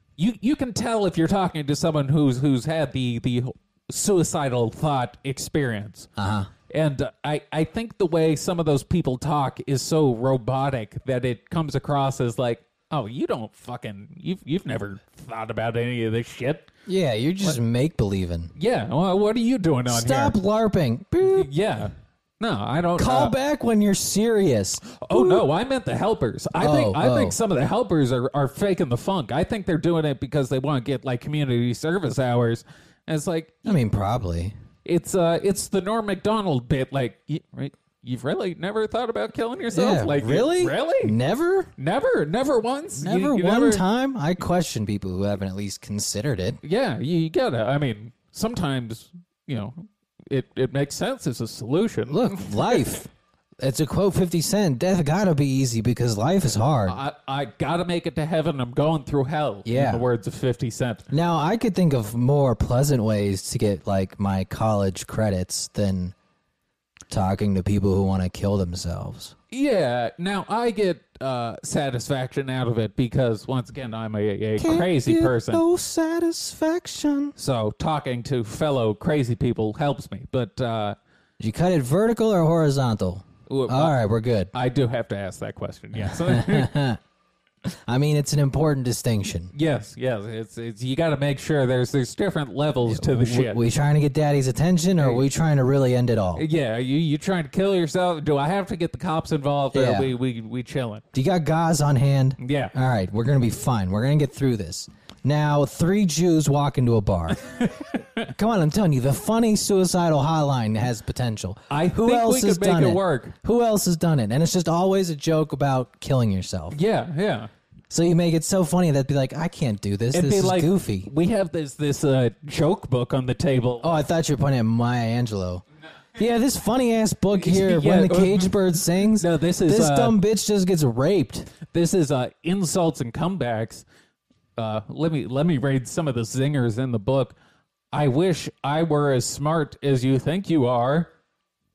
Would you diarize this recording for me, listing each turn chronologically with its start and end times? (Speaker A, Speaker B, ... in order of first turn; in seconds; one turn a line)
Speaker A: 0.2-6.1
Speaker B: 6.2-6.5
Speaker A: 6.7-16.7
Speaker B: 16.9-18.5
Speaker A: 18.5-20.4
Speaker B: 19.9-21.5
Speaker A: 21.2-23.3
Speaker B: 23.0-25.4
Speaker A: 24.9-33.8
Speaker B: 26.6-27.4
Speaker B: 33.6-34.5
Speaker A: 34.8-41.1
Speaker B: 39.7-41.7
Speaker A: 41.8-43.8
Speaker B: 43.0-46.6
Speaker A: 46.6-52.9
Speaker B: 52.1-57.0
Speaker A: 56.9-61.0
Speaker B: 59.6-60.0
Speaker B: 61.1-66.1
Speaker B: 67.1-69.3
Speaker A: 69.5-75.6
Speaker B: 74.6-77.3
Speaker A: 77.4-81.0
Speaker B: 81.4-84.5
Speaker A: 83.5-84.0
Speaker A: 84.5-86.7
Speaker B: 85.9-87.0
Speaker B: 87.7-89.5
Speaker A: 89.5-93.6
Speaker B: 92.8-96.4
Speaker A: 96.3-101.0
Speaker B: 99.7-100.1
Speaker B: 101.1-107.4
Speaker A: 102.4-102.7
Speaker A: 107.4-108.3
Speaker B: 108.3-116.8
Speaker A: 111.7-113.3
Speaker A: 116.7-117.5
Speaker B: 117.9-121.1
Speaker A: 120.1-124.0
Speaker B: 123.8-125.6
Speaker B: 126.2-131.5
Speaker A: 127.3-130.2
Speaker A: 131.7-133.8
Speaker A: 134.6-137.3
Speaker A: 137.9-141.1